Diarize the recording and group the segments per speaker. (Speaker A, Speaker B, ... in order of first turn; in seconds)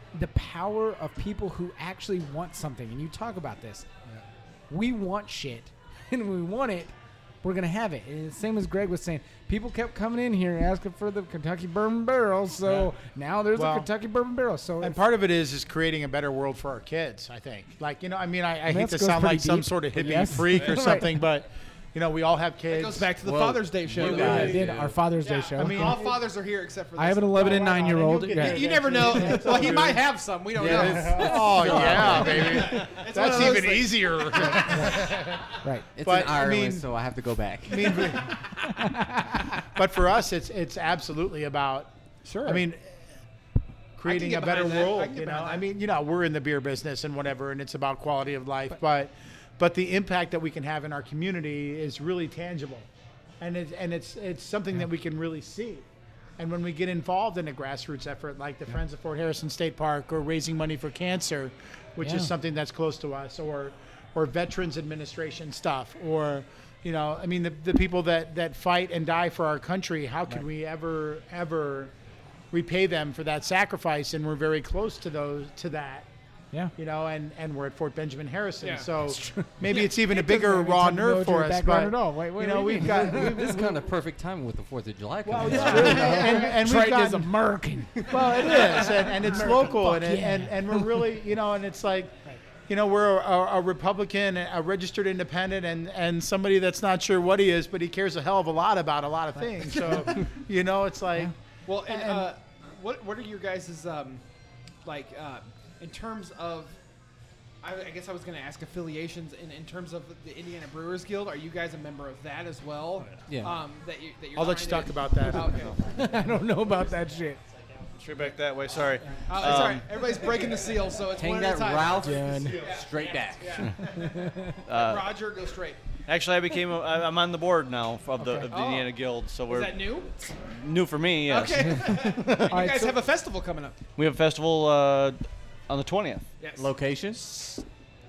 Speaker A: 0.1-3.9, 4.7-15.0, 18.7-21.1, 24.1-26.0, 26.9-29.5, 34.7-35.9, 38.4-39.5, 62.0-62.3, 79.0-83.5, 85.4-91.1, 115.9-117.4, 122.0-122.6, 123.8-124.6, 128.2-128.5, 132.5-133.0
Speaker B: 13.6-13.9, 14.8-23.1, 23.9-24.6, 25.6-26.2, 27.4-36.9, 37.6-38.5, 39.6-41.9, 42.4-43.0, 44.0-52.9, 53.4-55.9, 56.4-71.9, 72.5-76.1, 76.8-83.9, 85.2-87.4, 88.0-101.3, 101.8-102.3, 114.3-116.9, 122.3-123.1
Speaker C: 22.7-35.0, 42.2-42.6, 44.0-45.6, 78.6-78.9, 79.7-80.0, 85.7-86.2, 88.2-88.7, 99.7-100.1, 101.7-104.2, 104.8-106.8, 107.6-115.9, 119.3-123.9, 124.7-125.8, 128.5-128.9, 129.5-130.3, 131.3-133.8, 136.4-136.7
Speaker D: 23.2-25.0, 30.6-32.8, 35.9-38.2, 83.0-86.3, 113.3-113.6, 121.2-123.7, 136.6-137.3
Speaker E: 118.0-120.1, 123.5-123.8, 124.7-125.1, 126.1-129.9, 130.4-132.7, 134.0-136.3, 137.3-137.6